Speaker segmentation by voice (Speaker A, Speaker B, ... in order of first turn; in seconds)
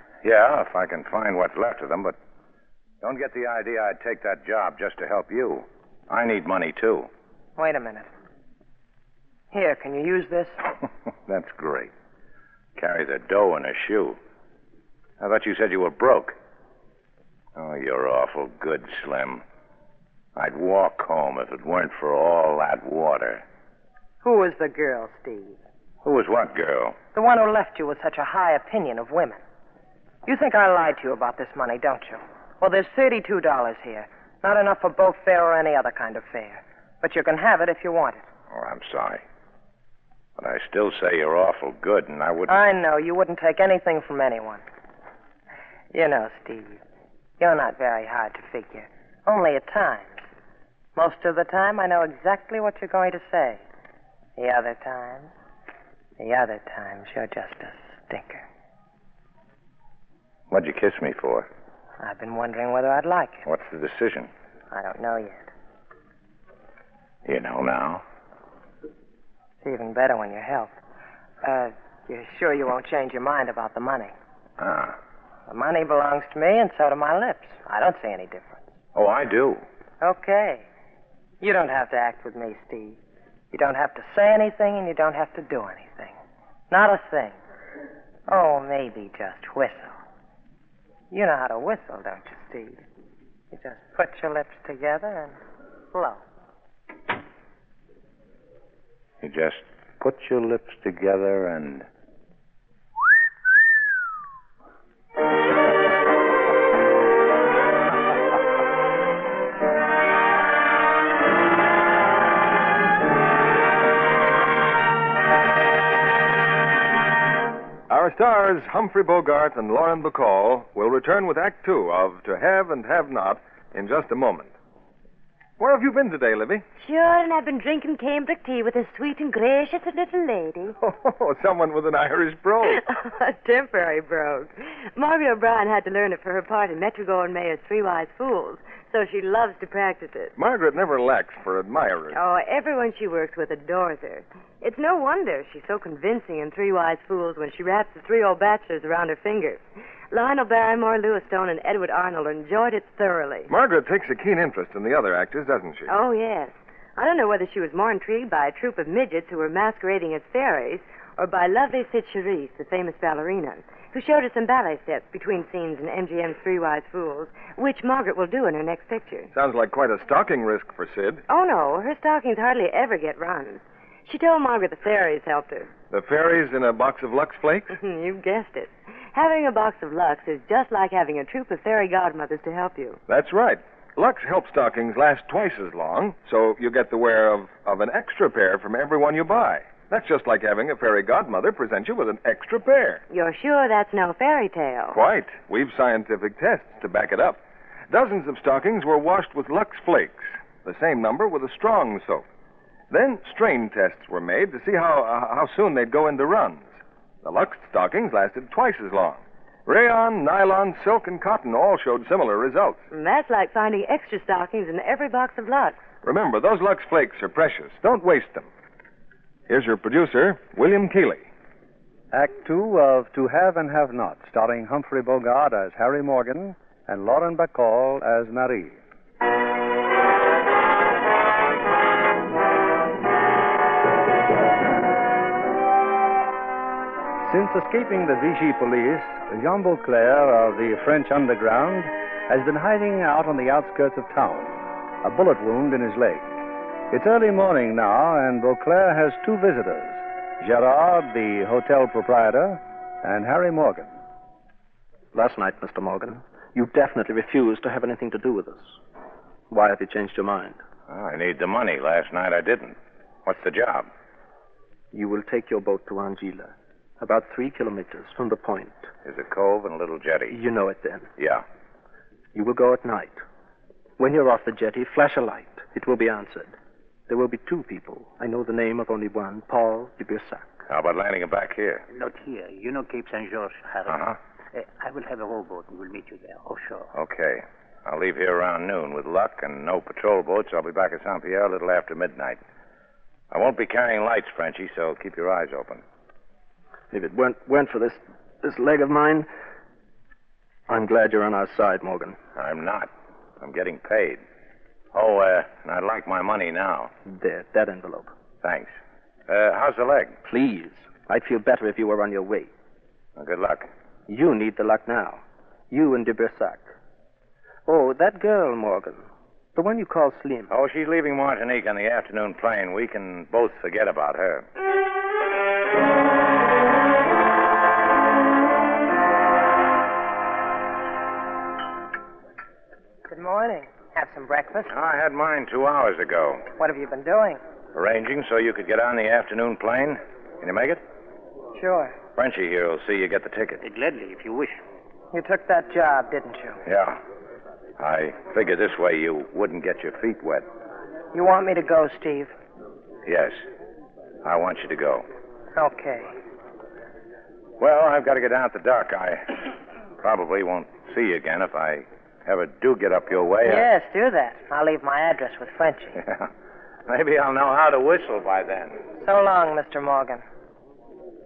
Speaker A: 0.2-2.2, 3.0-7.1, 11.2-11.9, 12.8-14.2, 15.2-16.4, 17.5-19.4, 20.4-23.4, 26.0-26.9, 38.5-39.2, 40.4-42.6, 60.5-61.5, 63.5-64.3, 67.2-68.0, 74.6-75.0, 78.9-79.6, 99.2-101.9, 260.9-263.9, 269.0-270.4, 271.2-271.4, 280.7-281.8, 283.9-284.2, 286.9-292.4, 293.3-295.8, 302.3-304.2, 304.9-306.9, 308.4-308.7, 309.3-310.2, 313.1-313.7, 320.5-324.4, 334.7-336.4, 337.7-340.8, 342.1-343.6, 346.6-347.0, 347.8-350.5, 353.0-353.4, 354.2-355.1, 357.6-359.4, 360.0-363.7, 365.9-366.3, 366.9-368.8
Speaker B: 7.6-8.1, 9.5-10.6, 24.2-25.6, 27.1-29.4, 30.2-38.2, 42.5-44.6, 45.9-46.8, 47.4-50.2, 51.0-53.6, 54.4-55.3, 56.2-58.4, 62.0-63.5, 64.7-65.5, 69.6-70.7, 71.4-74.1, 75.5-78.7, 80.0-80.7, 81.4-83.0, 83.5-86.2, 86.7-87.4, 88.3-89.9, 91.1-92.8, 93.5-95.4, 95.9-96.2, 333.1-334.7, 336.6-337.4, 341.5-341.9, 345.1-346.6, 351.1-352.3, 355.5-356.1, 363.4-366.0, 369.0-370.2
Speaker C: 117.9-124.5, 125.6-126.6, 130.8-132.8, 140.3-142.2, 153.5-155.9, 169.3-171.2, 175.9-177.8, 183.1-193.0, 194.9-202.2, 202.9-212.8, 216.0-218.5, 219.5-221.3
Speaker D: 126.8-130.7, 132.6-140.3, 142.1-149.6, 150.1-153.5, 155.9-169.3, 171.3-175.7, 177.7-183.0, 193.1-195.0, 212.9-215.8
Speaker E: 222.1-228.8, 237.2-246.2, 246.9-253.9
Speaker F: 255.1-258.8, 259.5-260.6, 264.9-268.9, 270.3-271.1, 272.3-273.2, 274.0-276.5, 277.1-280.6, 296.9-299.3, 300.7-302.2, 307.1-308.1, 310.2-312.5, 314.1-316.7, 317.7-320.5
Speaker G: 281.9-284.0, 284.5-286.9, 343.6-344.6